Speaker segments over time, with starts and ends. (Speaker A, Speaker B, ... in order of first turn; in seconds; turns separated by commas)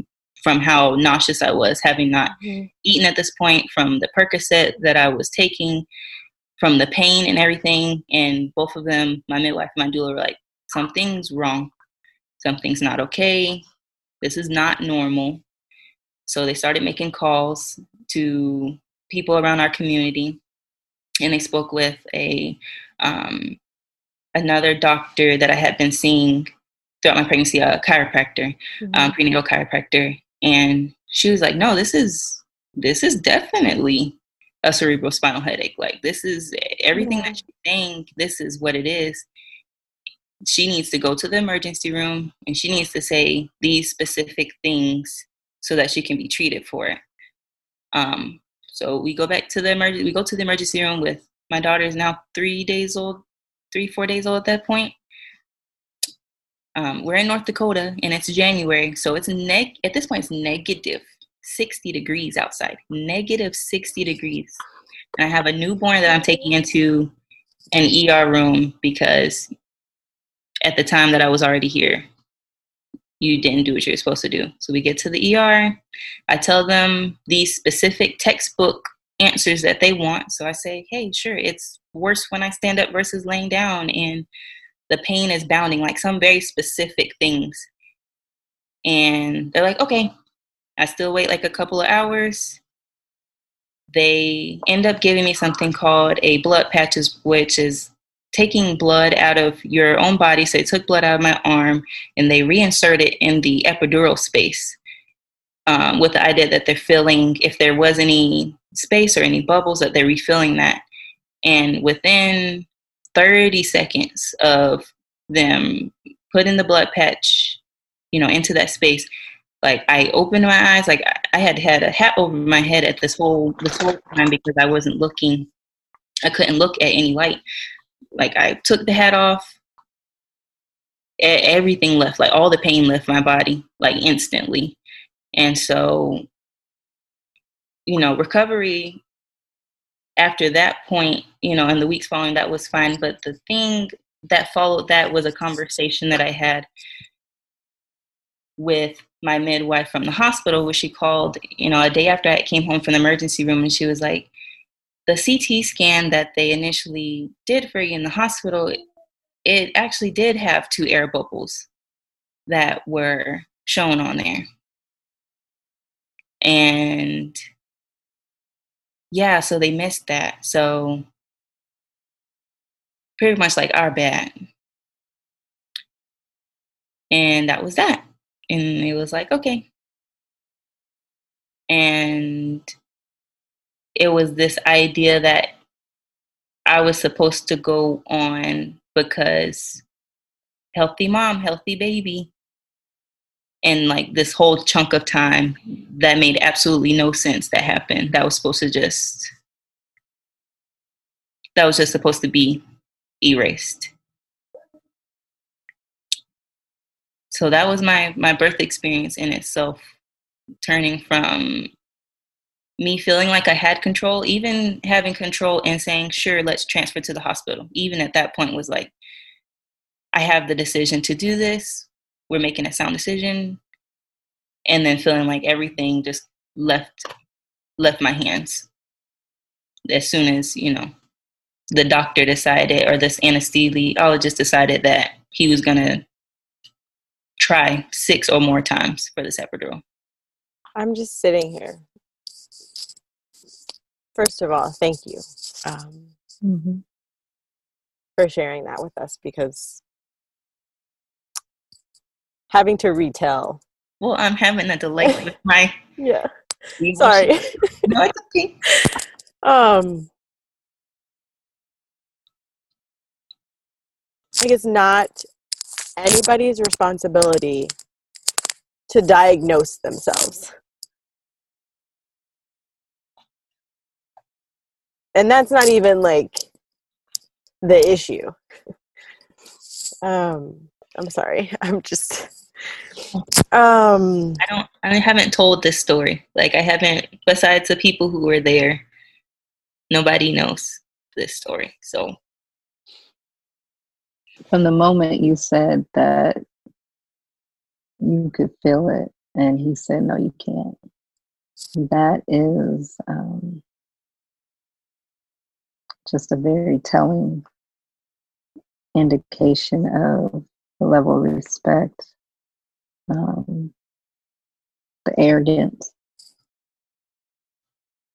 Speaker A: 0.4-5.9, Speaker B: 2.4-2.7, Speaker A: 6.6-11.7, Speaker A: 12.4-13.6, Speaker A: 14.2-15.4, Speaker A: 16.3-20.4, Speaker A: 21.2-23.6, Speaker A: 24.4-26.5, Speaker A: 27.0-39.3, Speaker A: 40.5-47.0, Speaker A: 47.9-54.9, Speaker A: 56.8-64.6, Speaker A: 65.2-67.1, Speaker A: 67.7-69.5, Speaker A: 70.6-72.0, Speaker A: 73.2-84.3, Speaker A: 84.9-87.7, Speaker A: 88.9-90.1, Speaker A: 90.8-92.6, Speaker A: 93.9-104.8, Speaker A: 105.7-110.8, Speaker A: 111.4-117.6, Speaker A: 118.1-119.1, Speaker A: 119.6-125.5, Speaker A: 126.2-127.4, Speaker A: 128.2-129.6, Speaker A: 131.2-134.8, Speaker A: 135.3-136.2, Speaker A: 137.9-139.0, Speaker A: 140.2-146.7, Speaker A: 148.6-154.3, Speaker A: 155.1-158.8, Speaker A: 159.4-161.7, Speaker A: 162.5-164.5, Speaker A: 166.4-167.4, Speaker A: 169.1-171.1, Speaker A: 173.2-174.3, Speaker A: 177.1-179.7, Speaker A: 181.7-182.7, Speaker A: 184.0-185.5, Speaker A: 186.7-189.8, Speaker A: 190.7-192.3, Speaker A: 193.6-199.3, Speaker A: 201.6-202.6, Speaker A: 203.2-203.9, Speaker A: 207.3-209.8, Speaker A: 210.6-211.7, Speaker A: 212.8-218.9, Speaker A: 220.1-223.6, Speaker A: 224.7-227.1, Speaker A: 227.8-228.7, Speaker A: 229.9-230.9, Speaker A: 231.7-236.0, Speaker A: 237.4-239.8, Speaker B: 240.8-241.8, Speaker B: 244.2-246.1, Speaker C: 246.4-246.8, Speaker B: 248.2-249.8, Speaker B: 252.5-253.6, Speaker A: 254.0-255.8, Speaker B: 256.0-256.3, Speaker A: 256.8-257.3, Speaker B: 256.9-257.9, Speaker A: 257.9-258.5, Speaker B: 259.4-260.1, Speaker B: 264.4-265.3, Speaker B: 266.0-267.7, Speaker B: 268.9-270.5, Speaker B: 275.1-276.5, Speaker B: 277.6-278.4, Speaker B: 280.0-282.3, Speaker B: 283.5-284.4, Speaker A: 284.4-288.9, Speaker A: 289.9-292.1, Speaker C: 294.5-296.4, Speaker C: 298.0-300.8, Speaker C: 301.8-303.6, Speaker C: 306.1-307.4, Speaker C: 308.9-312.1, Speaker C: 313.1-313.7, Speaker C: 315.1-315.9